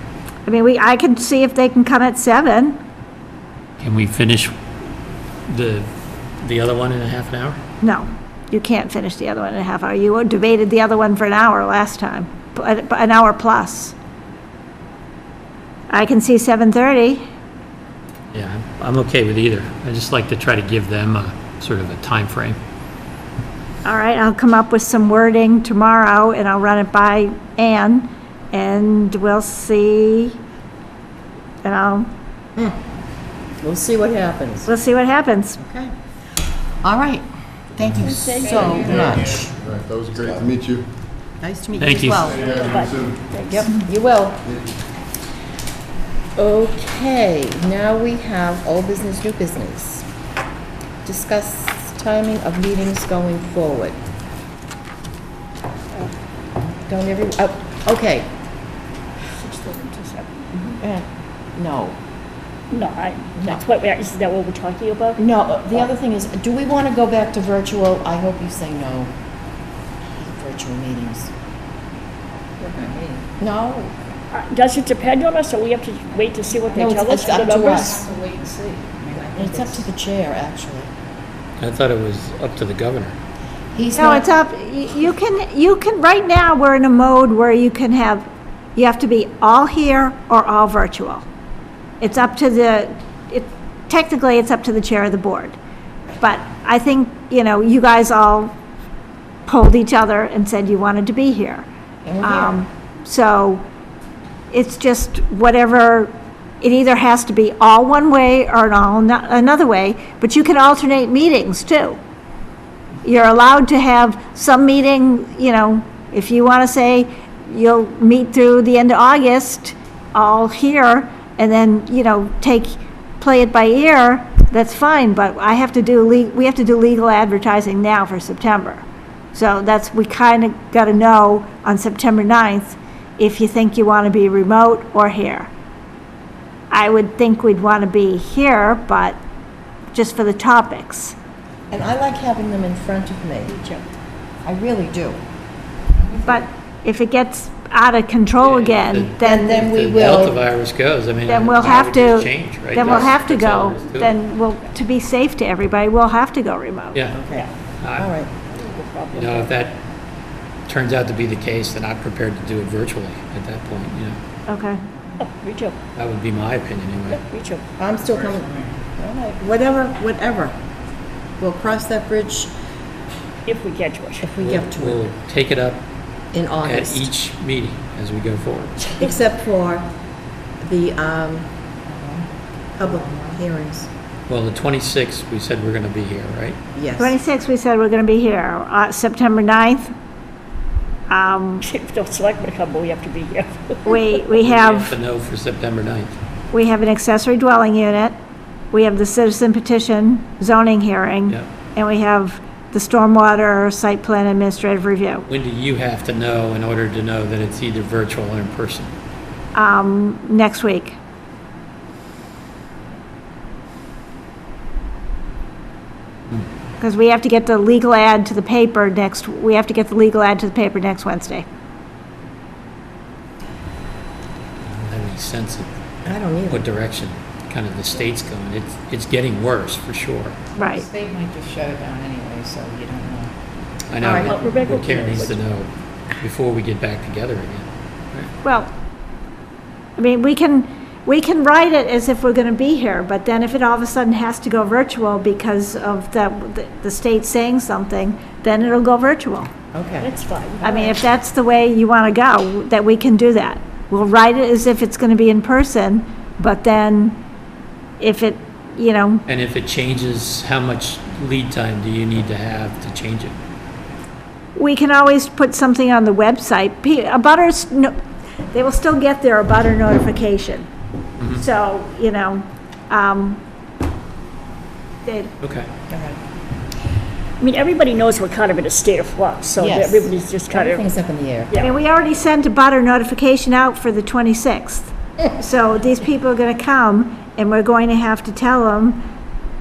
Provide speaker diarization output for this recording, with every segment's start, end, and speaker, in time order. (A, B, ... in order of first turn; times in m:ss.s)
0:00.4-0:02.8 A
0:03.8-0:04.5 B
0:05.5-0:07.6 B
0:07.8-0:13.9 A
0:15.9-0:17.2 A
0:18.3-0:22.6 B
0:23.8-0:30.4 A
0:31.6-0:32.1 A
0:33.6-0:34.7 C
0:34.7-0:35.6 A
0:35.6-0:35.9 C
0:36.8-0:39.5 C
0:38.0-0:39.2 D
0:38.8-0:40.8 E
0:41.4-0:42.5 C
0:41.8-0:42.3 B
0:42.3-0:43.2 E
0:42.4-0:43.7 D
0:43.5-0:44.5 C
0:46.4-0:50.0 C
0:51.0-0:54.0 C
0:56.8-0:58.3 C
0:59.4-1:00.5 D
1:00.8-1:02.0 C
1:02.7-1:05.2 D
1:05.2-1:09.1 C
1:10.2-1:11.3 C
1:12.6-1:13.2 F
1:13.4-1:14.0 C
1:14.3-1:18.0 D
1:16.7-1:18.0 C
1:17.8-1:19.8 F
1:19.3-1:20.9 C
1:21.6-1:23.2 B
1:23.7-1:24.3 C
1:24.0-1:31.2 A
1:32.0-1:35.6 A
1:36.2-1:38.5 A
1:39.4-1:41.7 A
1:42.0-1:42.6 C
1:42.2-1:43.6 A
1:44.5-1:52.0 A
1:53.0-2:15.5 A
2:16.7-2:19.2 A
2:19.9-2:21.2 A
2:21.7-2:23.6 C
2:23.5-2:23.8 D
2:24.4-2:25.2 C
2:26.0-2:26.4 F
2:26.2-2:29.6 A
2:28.4-2:34.1 B
2:29.2-2:30.4 C
2:31.2-2:37.0 A
2:37.1-2:38.3 C
2:37.8-2:38.1 B
2:38.5-2:39.5 D
2:39.1-2:39.8 B
2:40.7-2:44.2 B
2:44.5-2:44.8 A
2:45.2-2:45.8 D
2:46.0-2:47.2 B
2:47.2-2:47.6 D
2:47.8-2:50.6 C
2:48.1-2:48.5 F
2:51.4-2:52.5 C
2:53.4-2:54.2 D
2:54.2-2:55.0 C
2:54.4-2:55.9 B
2:56.3-2:57.1 C
2:56.6-2:58.8 B
2:58.9-2:59.9 C
3:00.6-3:01.5 C
3:01.8-3:03.4 F
3:02.8-3:03.9 C
3:04.3-3:06.6 B
3:06.7-3:07.2 C
3:07.0-3:09.9 A
3:11.1-3:11.6 A
3:11.6-3:14.1 D
3:13.8-3:14.9 A
3:14.4-3:16.2 B
3:16.5-3:18.1 A
3:18.7-3:25.2 A
3:25.3-3:28.9 B
3:29.5-3:31.0 A
3:36.8-3:41.4 A
3:44.6-3:45.7 B
3:46.0-3:46.6 C
3:46.5-3:50.4 B
3:50.6-3:50.8 A
3:50.7-3:53.3 F
3:53.9-3:58.3 B
3:54.0-3:55.3 C
3:54.2-3:55.4 D
3:58.4-3:58.7 A
4:00.0-4:09.5 A
4:09.7-4:10.1 C
4:10.0-4:11.0 D
4:10.6-4:17.2 A
4:18.0-4:19.2 A
4:19.3-4:23.4 B
4:24.6-4:28.0 A
4:28.5-4:30.7 A
4:31.3-4:33.4 A
4:35.0-4:35.3 A
4:35.4-4:35.7 B
4:35.9-4:36.2 C
4:37.4-4:40.8 D
4:39.6-4:41.5 C
4:41.5-4:41.7 D
4:41.6-4:49.0 A